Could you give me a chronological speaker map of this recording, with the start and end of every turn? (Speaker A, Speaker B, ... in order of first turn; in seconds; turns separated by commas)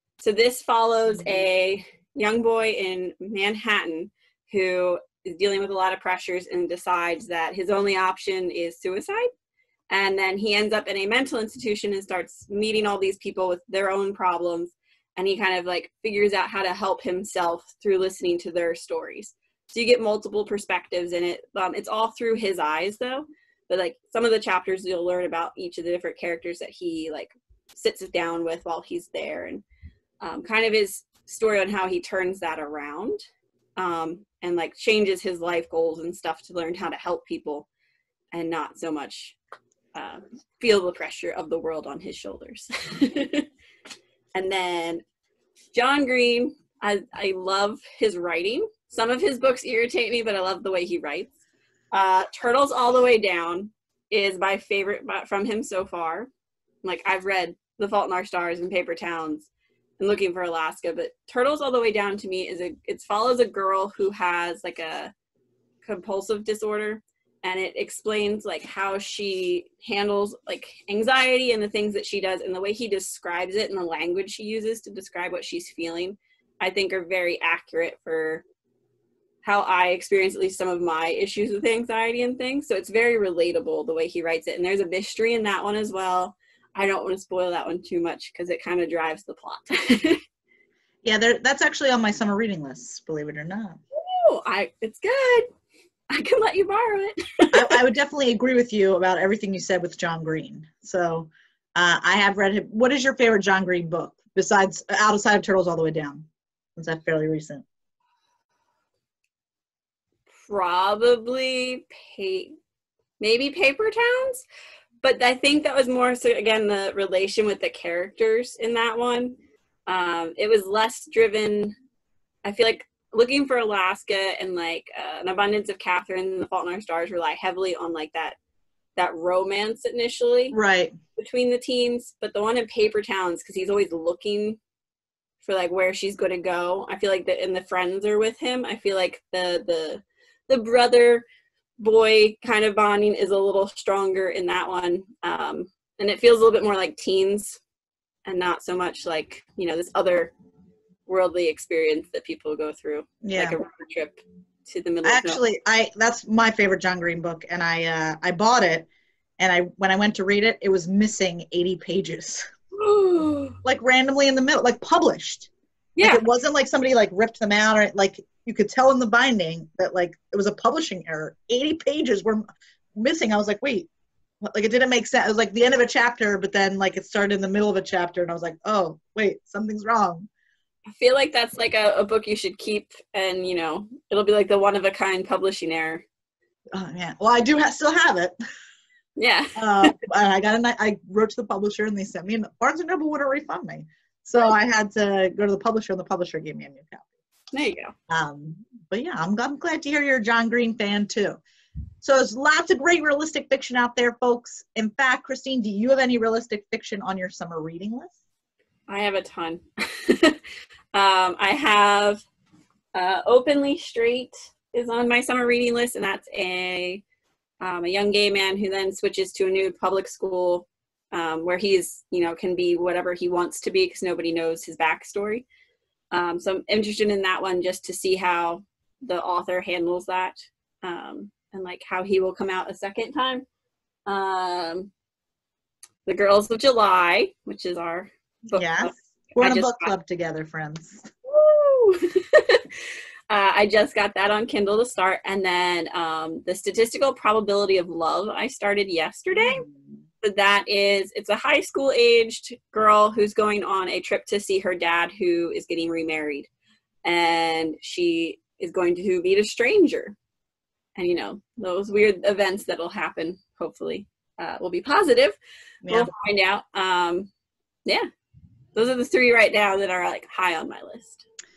Speaker A: 0.2-9.3, Speaker A: 9.9-29.6, Speaker A: 30.2-33.2, Speaker A: 33.8-37.7, Speaker A: 38.3-39.4, Speaker A: 40.0-43.5, Speaker A: 44.4-45.0, Speaker A: 45.7-51.3, Speaker A: 51.9-56.3, Speaker A: 56.8-65.1, Speaker A: 65.8-78.4, Speaker A: 79.4-90.2, Speaker B: 91.0-93.8, Speaker A: 93.9-95.5, Speaker A: 96.1-97.8, Speaker B: 97.5-107.6, Speaker A: 110.4-112.5, Speaker A: 113.2-114.5, Speaker A: 115.0-119.3, Speaker A: 119.9-121.7, Speaker A: 122.5-128.4, Speaker A: 129.0-130.6, Speaker B: 130.5-131.0, Speaker A: 131.2-134.6, Speaker A: 135.4-141.2, Speaker A: 141.8-147.6, Speaker A: 148.3-150.3, Speaker A: 151.1-155.4, Speaker B: 153.2-153.6, Speaker B: 155.0-158.9, Speaker B: 159.4-162.5, Speaker A: 162.8-163.6, Speaker B: 163.6-165.5, Speaker A: 166.0-166.2, Speaker B: 166.0-172.4, Speaker B: 173.0-173.9, Speaker B: 174.4-180.3, Speaker A: 181.0-186.0, Speaker B: 186.8-188.3, Speaker A: 189.2-189.9, Speaker B: 189.6-197.1, Speaker A: 197.5-197.9, Speaker B: 198.1-201.4, Speaker B: 202.0-208.2, Speaker A: 208.9-210.4, Speaker A: 210.9-212.2, Speaker A: 212.9-217.0, Speaker A: 217.6-225.4, Speaker A: 226.1-233.4, Speaker A: 234.1-234.9, Speaker A: 236.1-239.9, Speaker B: 238.5-241.1, Speaker A: 241.3-249.7, Speaker B: 249.4-250.0, Speaker A: 250.2-256.5, Speaker A: 257.1-260.2, Speaker A: 261.0-267.3, Speaker B: 265.9-266.1, Speaker A: 268.8-271.2